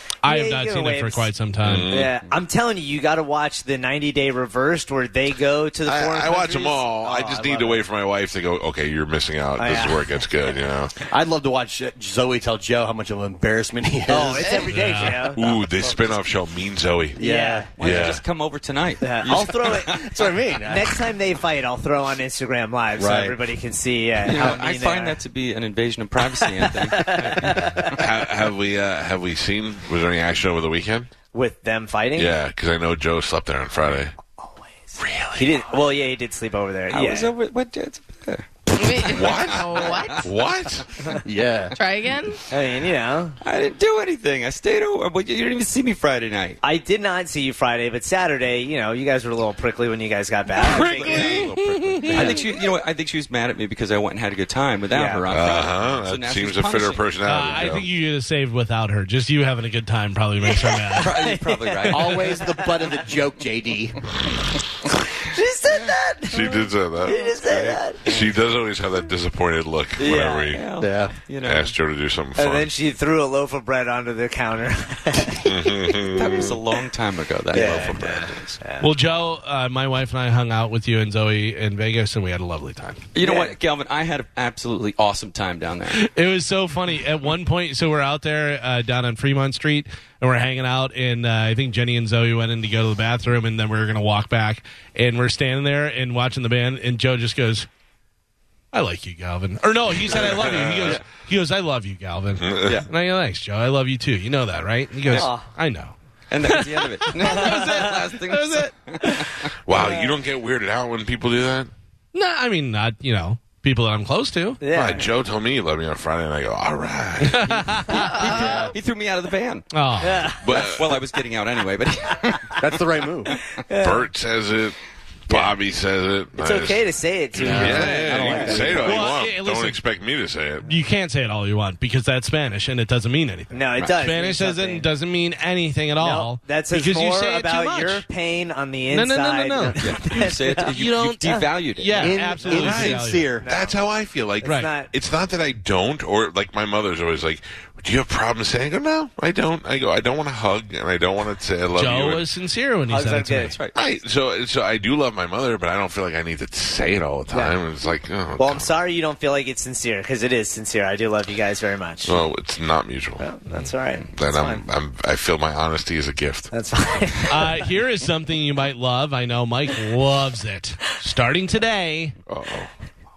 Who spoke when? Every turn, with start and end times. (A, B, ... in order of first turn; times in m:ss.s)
0:00.2-0:01.9 A
0:00.2-0:01.3 B
0:01.6-0:02.1 C
0:01.9-0:07.8 B
0:05.9-0:10.9 C
0:09.6-0:10.2 B
0:11.1-0:14.7 D
0:14.1-0:16.1 B
0:14.4-0:14.7 E
0:14.7-0:15.2 A
0:15.3-0:17.2 C
0:17.2-0:18.0 D
0:17.2-0:17.7 B
0:17.8-0:20.1 F
0:17.8-0:18.2 C
0:19.0-0:20.1 B
0:19.9-0:21.0 D
0:20.6-0:25.2 B
0:23.0-0:23.4 D
0:24.2-0:27.9 F
0:26.4-0:28.0 B
0:27.9-0:31.1 C
0:31.3-0:32.3 B
0:32.2-0:34.1 C
0:34.4-0:34.7 B
0:35.0-0:35.6 C
0:35.3-0:37.3 B
0:36.9-0:40.2 F
0:38.7-0:40.3 E
0:39.1-0:40.9 C
0:41.2-0:41.8 D
0:41.7-0:42.4 E
0:42.5-0:43.4 B
0:43.4-0:46.6 F
0:46.6-0:51.4 B
0:50.5-0:57.5 F
0:50.6-0:52.3 C
0:52.1-0:52.4 B
0:54.9-0:55.2 B
0:55.3-0:57.9 C
0:57.2-1:01.1 A
1:00.5-1:02.8 B
1:01.0-1:02.4 F
1:01.9-1:04.0 D
1:05.2-1:08.1 B
1:06.3-1:10.6 C
1:10.0-1:10.6 B
1:10.5-1:11.7 F
1:10.8-1:11.1 D
1:11.4-1:12.7 C
1:12.4-1:16.5 B
1:15.4-1:16.5 C
1:16.1-1:18.6 F
1:17.5-1:18.9 B
1:18.8-1:23.0 A
1:23.1-1:26.0 F
1:23.2-1:23.5 B
1:25.9-1:37.7 A
1:38.7-1:49.2 A
1:40.1-1:41.0 C
1:42.4-1:42.8 C
1:45.1-1:45.5 B
1:46.3-1:49.5 F
1:47.2-1:47.9 B
1:49.6-1:51.7 C
1:49.7-1:50.2 B
1:52.1-1:54.6 A
1:54.6-1:55.1 B
1:54.7-1:57.5 C
1:57.2-1:58.2 A
1:57.7-1:59.7 F
1:58.0-1:58.7 E
1:59.7-2:00.3 A
2:00.0-2:00.9 B
2:00.2-2:02.6 F
2:00.4-2:01.0 C
2:02.6-2:03.3 D
2:03.7-2:04.1 B
2:03.8-2:04.8 C
2:05.3-2:05.5 B
2:05.3-2:06.8 C
2:06.4-2:09.0 B
2:07.3-2:10.7 C
2:07.4-2:09.1 D
2:08.8-2:09.8 A
2:10.6-2:18.0 A
2:13.5-2:14.9 B
2:16.0-2:20.7 B
2:18.9-2:23.3 A
2:19.8-2:22.6 F
2:22.0-2:23.5 D
2:22.5-2:32.2 C
2:23.4-2:23.8 B
2:24.4-2:24.9 B
2:24.4-2:24.7 A
2:31.8-2:33.5 A
2:32.9-2:33.6 B
2:33.5-2:33.8 F
2:33.7-2:38.7 C
2:37.3-2:37.6 B
2:38.4-2:42.2 B
2:42.0-2:43.2 C
2:43.2-2:44.6 B
2:44.1-2:46.5 C
2:46.5-2:47.7 B
2:47.3-2:52.1 A
2:52.3-2:52.7 C